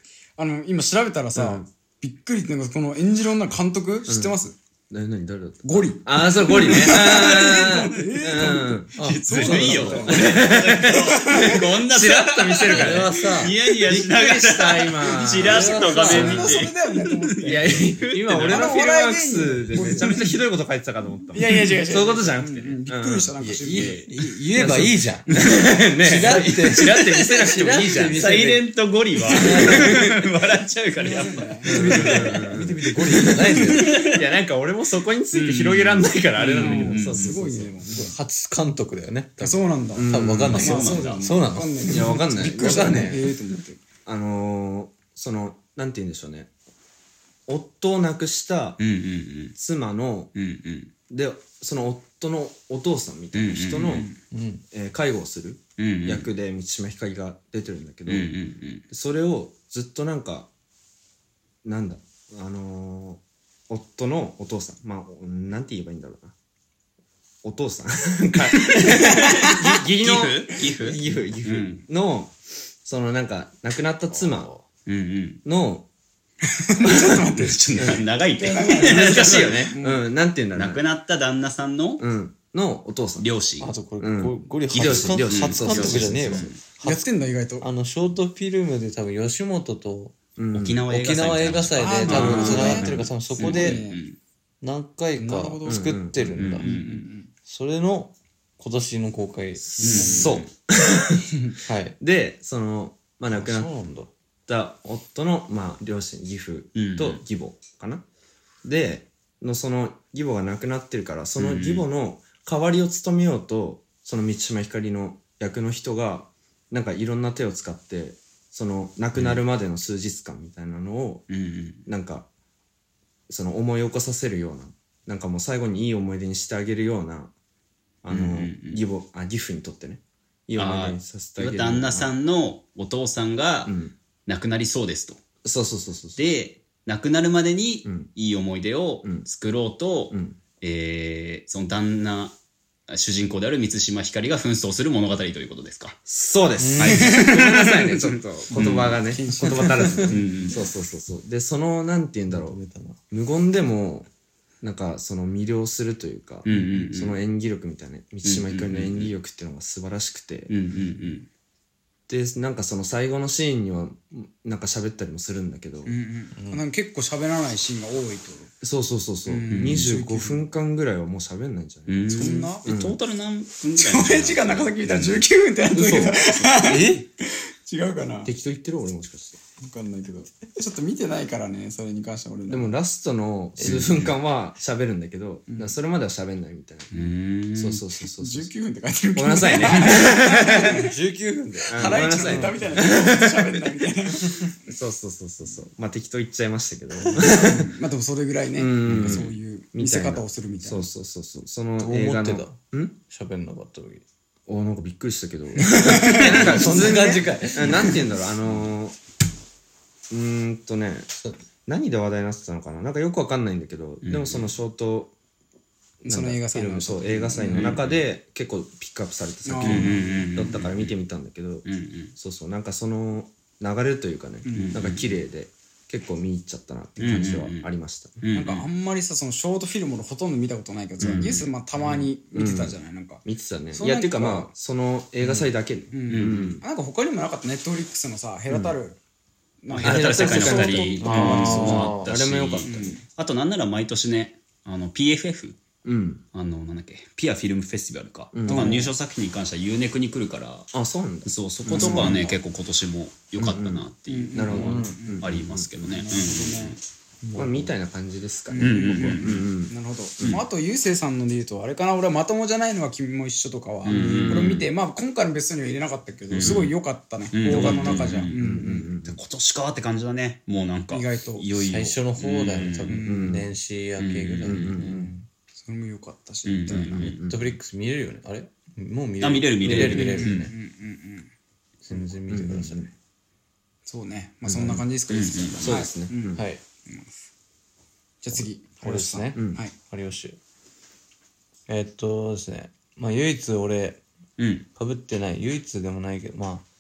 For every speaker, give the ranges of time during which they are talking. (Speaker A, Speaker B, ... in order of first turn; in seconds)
Speaker A: 0.4-4.5, 5.6-11.8, 15.4-20.3, 21.3-24.7, 25.3-25.6, 31.0-33.3, 36.5-38.1, 39.4-43.8, 76.5-80.0, 86.8-87.7, 91.8-94.0, 95.2-95.9, 96.6-97.3, 99.8-100.3, 149.0-150.1, 165.9-168.5, 169.3-170.5, 172.1-172.7, 173.8-178.3, 179.6-182.8, 185.5-185.8, 188.0-190.9, 191.7-194.6, 197.2-200.9, 205.6-207.9, 216.0-217.8, 219.4-220.3, 224.4-224.8, 228.3-234.5, 235.9-239.0, 239.6-241.9, 242.7-243.0, 248.5-248.9, 251.7-252.4, 254.1-255.3, 255.9-256.8, 258.5-268.9, 270.9-271.5, 272.9-273.3, 275.6-277.0, 279.7-281.3, 283.9-287.1, 288.2-289.7
Speaker B: 1.4-1.7, 4.1-4.4, 4.9-16.7, 17.4-23.3, 24.5-28.3, 29.3-30.1, 31.6-37.9, 40.0-40.8, 41.9-43.2, 44.0-46.5, 47.5-48.8, 49.6-50.3, 51.1-54.1, 54.7-58.4, 58.9-60.5, 61.6-66.3, 67.4-74.5, 75.5-75.9, 76.9-77.2, 78.7-80.8, 82.0-83.3, 84.0-86.5, 90.4-90.8, 92.1-93.1, 95.7-96.4, 99.6-101.3, 102.0-103.7, 104.5-108.0, 108.6-121.2, 121.9-122.3, 123.3-127.3, 128.0-132.1, 133.7-133.9, 135.4-136.2, 137.8-138.1, 140.1-140.4, 146.1-154.1, 154.6-160.5, 162.1-166.0, 168.6-173.0, 175.7-176.3, 178.2-179.4, 182.5-186.9, 187.6-188.5, 189.2-190.9, 191.7-193.5, 194.7-197.7, 198.6-203.0, 204.5-209.0, 210.1-211.1, 211.7-215.1, 216.0-228.2, 231.0-236.6, 238.5-238.8, 239.8-243.0, 245.8-246.2, 248.3-248.7, 250.7-252.3, 253.4-256.1, 257.4-260.4, 263.9-264.6, 266.4-266.7, 267.5-269.2, 273.0-273.5, 274.4-275.1, 276.7-277.6, 279.7-280.1, 281.9-282.9, 284.5-284.9, 285.6-286.4, 289.4-289.6
Speaker C: 9.0-9.9, 12.7-13.6, 15.4-16.3, 23.4-25.3, 26.0-28.7, 29.3-30.0, 31.6-34.0, 37.9-43.3, 54.3-54.6, 74.1-74.7, 83.6-90.2, 90.9-93.8, 94.6-96.8, 97.5-100.2, 101.7-102.0, 103.3-104.1, 146.6-147.0, 149.5-150.2, 152.3-153.0, 166.4-166.6, 176.6-177.1, 183.6-183.9, 190.5-193.0, 201.8-204.0, 205.8-208.1, 211.2-211.4, 241.1-242.1, 254.6-255.0, 257.2-257.7, 271.6-275.2, 277.1-280.5, 281.9-282.9, 286.4-286.6, 288.3-290.4, 291.7-294.0, 294.8-296.7
Speaker D: 9.0-18.7, 19.9-20.2, 23.7-24.1, 26.2-32.3, 33.7-34.2, 35.3-36.0, 36.6-37.4, 40.5-41.3, 48.8-49.5, 50.4-50.9, 53.4-54.1, 55.8-56.3, 58.1-58.8, 68.5-71.8, 74.9-75.4, 76.9-79.7, 80.5-82.0, 83.2-83.7, 84.7-86.6, 90.5-94.2, 96.4-97.0, 99.8-100.5, 106.8-107.2, 111.4-111.9, 119.2-119.4, 121.3-121.9, 128.1-128.8, 130.6-133.7, 134.3-135.2, 136.2-142.4, 142.9-146.0, 146.8-149.0, 150.1-150.6, 156.4-157.2, 158.2-159.1, 160.5-161.3, 169.5-169.9, 171.9-175.3, 176.3-176.5, 183.6-184.1, 186.9-187.8, 198.9-199.3, 214.0-214.5, 217.5-218.0, 219.6-221.0, 221.7-222.1, 224.5-225.2, 227.0-227.7, 228.2-228.7, 231.0-231.4, 236.1-236.6, 239.7-245.6, 246.3-250.7, 251.2-256.8, 258.6-259.4, 263.8-264.6, 266.3-266.7, 267.3-273.0, 274.0-274.9, 276.5-277.2, 279.2-280.5, 285.1-285.8, 294.4-294.7